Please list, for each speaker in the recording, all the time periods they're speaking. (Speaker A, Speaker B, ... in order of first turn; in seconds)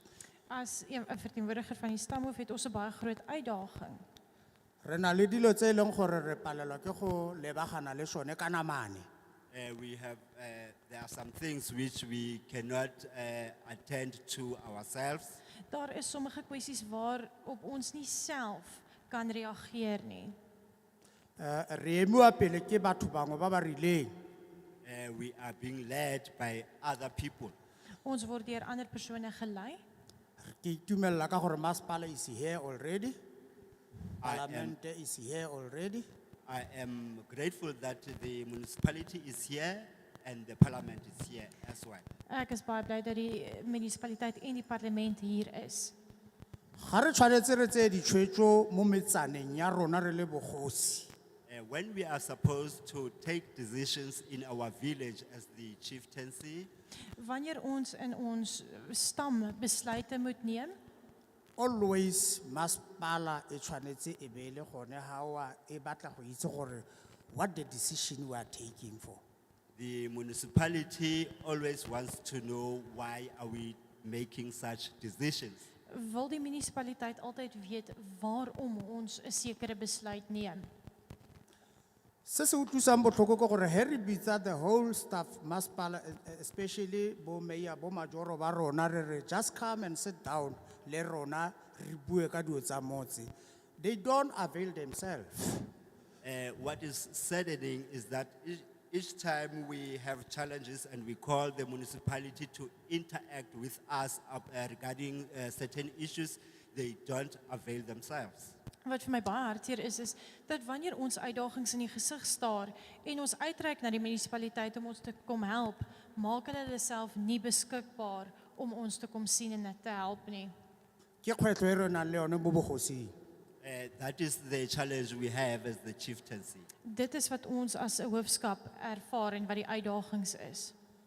Speaker A: 0.5-4.0, 15.7-20.4, 28.0-29.8, 42.3-45.9, 57.2-60.7, 75.9-80.7, 108.8-120.5, 126.8-130.7
Speaker B: 4.8-9.1, 21.4-24.1, 30.5-33.2, 34.2-36.0, 46.8-51.1, 61.6-69.2, 82.2-95.7, 121.2-123.1
Speaker C: 9.5-15.4, 24.8-27.5, 34.2-34.7, 36.5-42.0, 51.5-56.7, 69.7-75.7, 96.2-108.5, 123.6-126.7